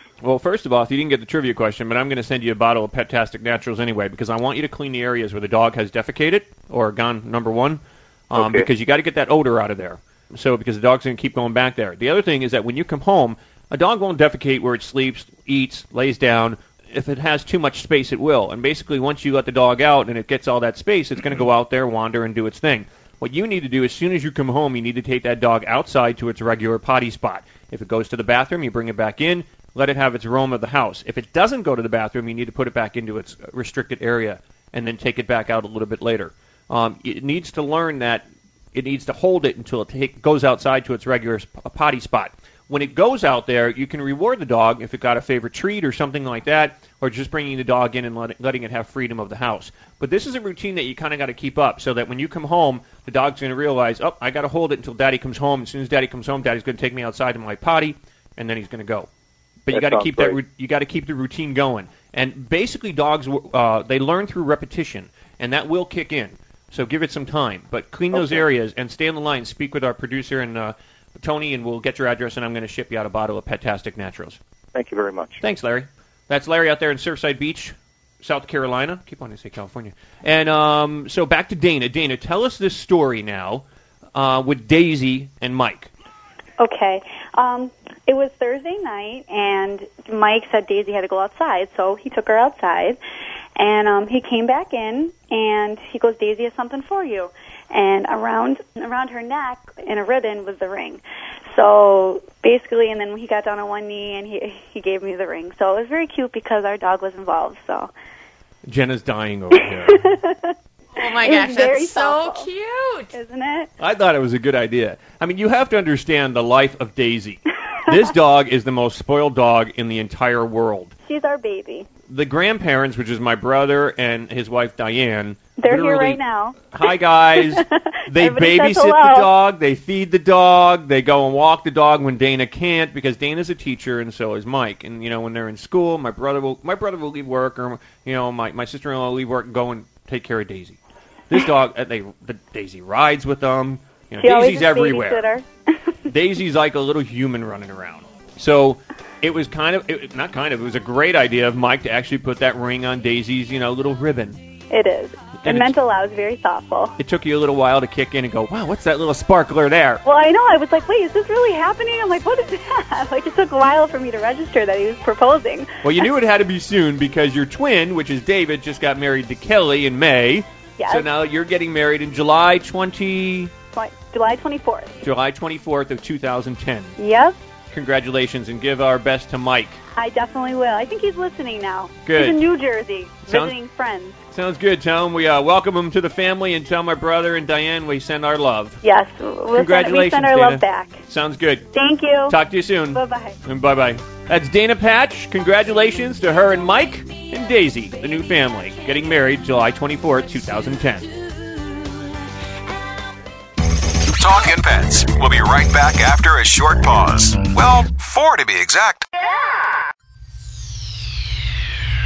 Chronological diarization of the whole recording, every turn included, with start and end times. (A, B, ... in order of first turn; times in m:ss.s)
0:00.2-0:59.1 A
0:08.3-0:08.7 B
0:59.7-1:14.4 A
0:59.7-1:00.4 B
1:08.1-1:08.5 B
1:14.8-1:15.4 B
1:15.4-1:23.6 A
1:24.2-1:25.9 A
1:26.6-1:33.0 C
1:33.6-1:41.0 C
1:41.5-1:47.9 C
1:48.7-1:50.0 A
1:49.6-1:50.5 C
1:51.0-1:53.1 D
1:51.0-1:52.5 C
1:53.1-1:53.7 C
1:53.8-2:00.9 A
2:01.1-2:01.9 C
2:02.1-2:20.8 A
2:05.6-2:09.3 C
2:21.3-2:25.3 A
2:24.2-2:25.5 C
2:26.1-2:34.4 A
2:34.7-2:36.9 C
2:35.4-2:35.7 A
2:37.0-2:40.0 A
2:40.0-2:45.7 C
2:45.8-2:53.5 A
2:50.8-2:51.1 C
2:53.7-2:54.9 C
2:55.0-2:57.0 A
2:57.0-2:57.4 C
2:57.7-2:59.8 A
3:00.0-3:04.2 C
3:02.1-3:02.4 A
3:03.3-3:03.6 A
3:04.3-3:08.8 A
3:08.8-3:11.0 C
3:09.5-3:11.7 A
3:11.7-3:12.4 C
3:12.3-3:21.1 A
3:12.9-3:13.4 C
3:24.1-3:29.0 E